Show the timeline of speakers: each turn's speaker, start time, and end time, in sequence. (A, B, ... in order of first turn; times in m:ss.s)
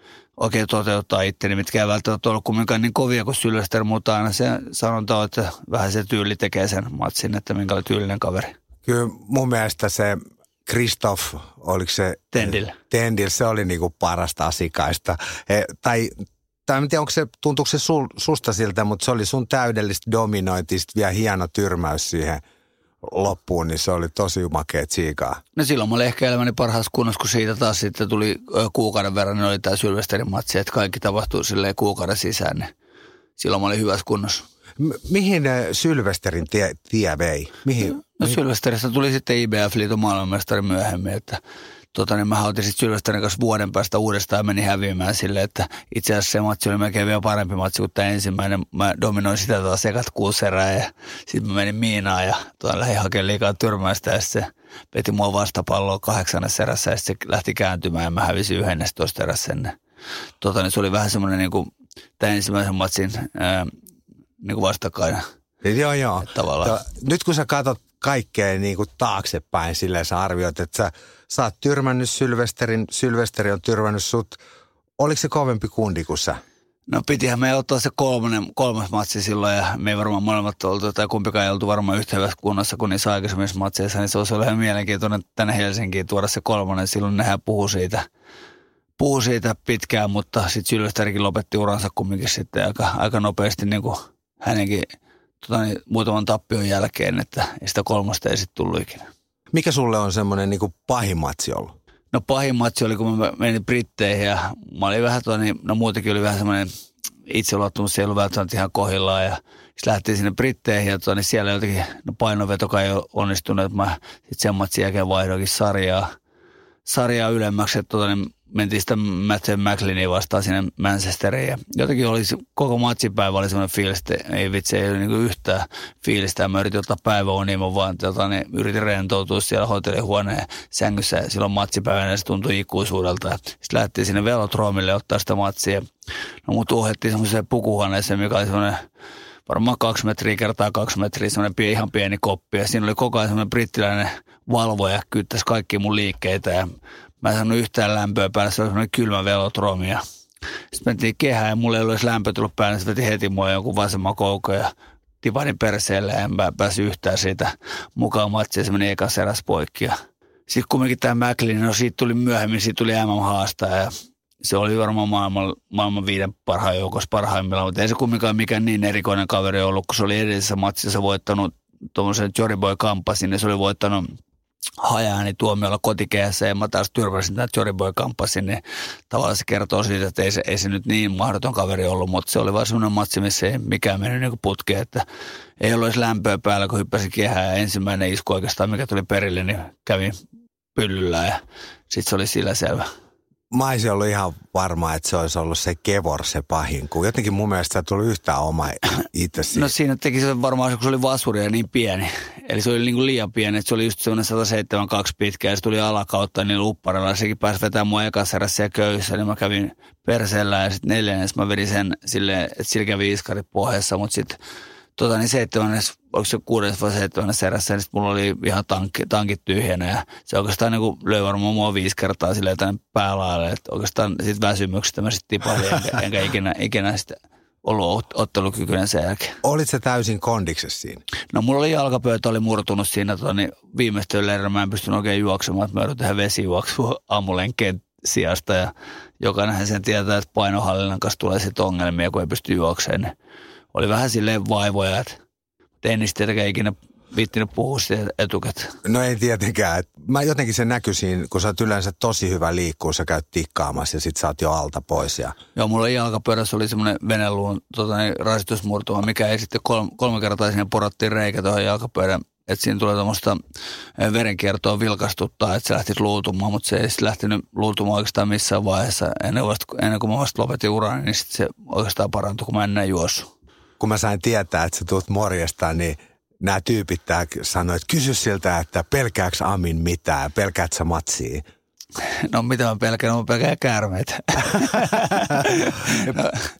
0:00.4-0:08.6 A
0:08.8-0:16.2 B
0:12.3-0:12.8 A
0:16.7-0:22.4 B
0:23.0-0:25.4 B
0:25.6-0:32.7 A
0:33.4-0:34.4 A
0:34.8-0:38.4 B
0:38.2-0:41.4 A
0:41.9-0:59.7 A
1:00.4-1:01.7 A
1:02.2-1:03.7 A
1:04.4-1:05.2 A
1:05.6-1:14.4 B
1:06.3-1:06.8 A
1:15.0-1:16.4 B
1:16.9-1:28.1 A
1:29.0-1:34.9 A
1:35.4-1:39.1 A
1:39.5-1:41.7 B
1:42.1-1:46.7 A
1:47.3-1:56.1 A
1:56.9-2:15.8 A
2:16.5-2:18.8 A
2:19.5-2:26.7 A
2:27.2-2:30.0 A
2:30.7-2:34.7 A
2:35.2-2:40.0 A
2:40.5-2:43.9 A
2:44.4-2:54.1 A
2:54.8-3:05.0 A
3:05.6-3:10.1 A
3:10.8-3:12.9 A
3:13.5-3:19.7 B
3:19.5-3:34.4 A
3:35.0-3:49.4 A
3:49.4-3:51.0 B
3:51.3-4:03.1 A
4:03.7-4:05.2 A
4:05.8-4:08.8 A
4:08.8-4:15.4 B
4:15.6-4:23.4 A
4:24.0-4:33.3 A
4:33.8-4:41.4 B
4:42.0-4:46.4 A